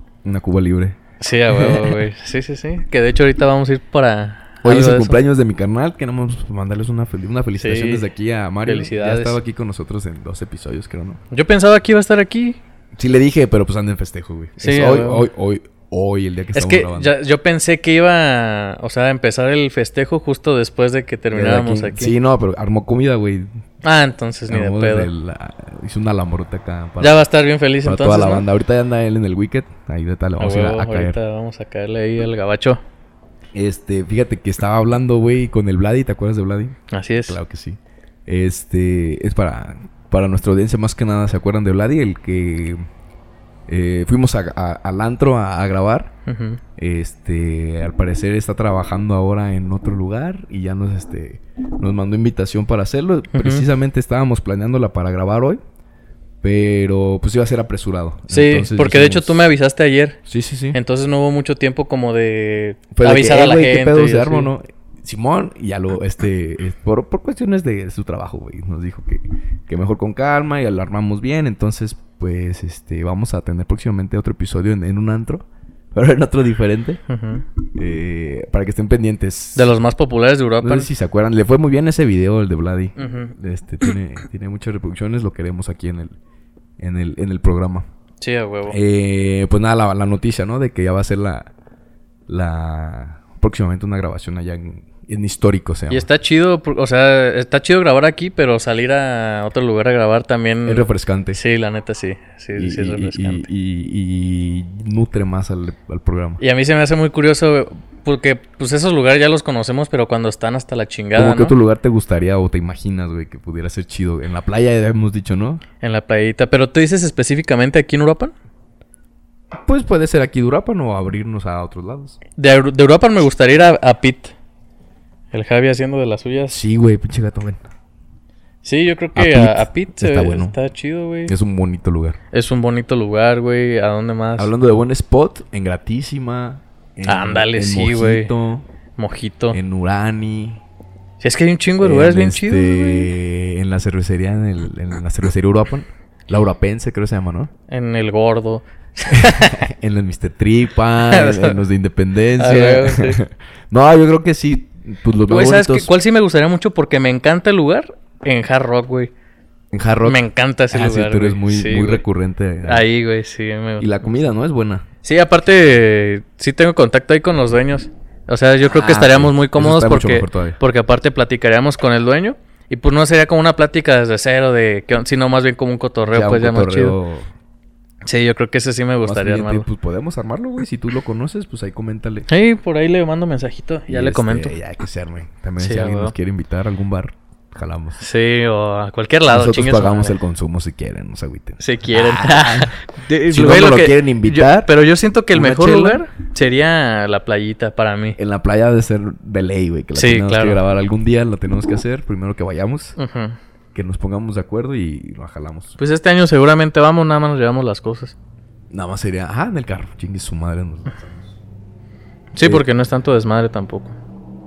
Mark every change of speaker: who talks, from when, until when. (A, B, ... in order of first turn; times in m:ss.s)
0:00.2-0:01.0 A
0:01.2-0:05.2 B
0:01.5-0:02.0 A
0:04.6-0:11.2 A
0:07.6-0:08.0 B
0:08.6-0:09.4 B
0:11.3-0:12.6 B
0:13.0-0:17.1 A
0:14.6-0:15.3 B
0:16.5-0:22.1 B
0:21.3-0:23.5 A
0:23.8-0:25.1 B
0:24.5-0:27.2 A
0:27.0-0:28.4 B
0:27.8-0:31.2 A
0:30.4-0:32.8 B
0:33.5-0:42.8 A
0:36.9-0:37.4 B
0:43.7-0:46.1 A
0:46.3-0:46.6 B
0:46.8-0:55.6 A
0:53.3-0:53.6 B
0:56.4-0:59.4 A
0:58.3-1:00.2 B
1:00.3-1:00.8 A
1:00.7-1:04.5 B
1:02.9-1:17.0 A
1:17.1-1:17.4 B
1:17.7-1:19.7 A
1:19.6-1:20.9 B
1:20.6-1:26.1 A
1:23.0-1:23.3 B
1:26.8-1:27.8 A
1:28.2-1:28.8 B
1:28.7-1:31.5 A
1:32.3-1:36.1 A
1:35.9-1:43.5 B
1:40.6-1:41.4 A
1:42.6-1:46.4 A
1:46.4-1:51.5 B
1:51.2-1:55.6 A
1:55.8-1:58.3 B
1:59.5-2:02.2 A
2:02.4-2:04.3 B
2:05.3-2:06.6 B
2:06.5-2:07.6 A
2:08.6-2:11.3 B
2:09.1-2:10.6 A
2:11.2-2:12.2 A
2:12.3-2:14.5 B
2:14.4-2:18.6 A
2:17.0-2:18.3 B
2:19.0-2:19.6 B
2:19.5-2:20.6 A
2:21.2-2:23.1 B
2:21.8-2:27.5 A
2:27.7-2:29.7 B
2:29.1-2:35.9 A
2:31.1-2:31.6 B
2:32.4-2:33.2 B
2:35.3-2:39.1 B
2:39.7-2:40.2 A
2:40.0-2:42.0 B
2:40.7-2:42.8 A
2:42.6-2:43.9 B
2:43.8-2:44.9 A
2:45.0-2:57.0 B
2:48.6-2:50.6 A
2:56.1-2:57.3 A
2:58.0-2:59.7 B
2:59.0-3:02.3 A
3:02.3-3:04.6 B
3:03.9-3:08.0 A
3:05.6-3:06.1 B
3:08.0-3:10.2 B
3:09.3-3:14.7 A
3:11.6-3:18.2 B
3:15.3-3:16.0 A
3:18.2-3:23.0 A
3:19.9-3:20.6 B
3:23.0-3:23.4 B
3:23.7-3:25.8 A
3:25.8-3:28.1 B
3:28.7-3:31.3 A
3:32.3-3:33.9 B
3:32.4-3:32.6 A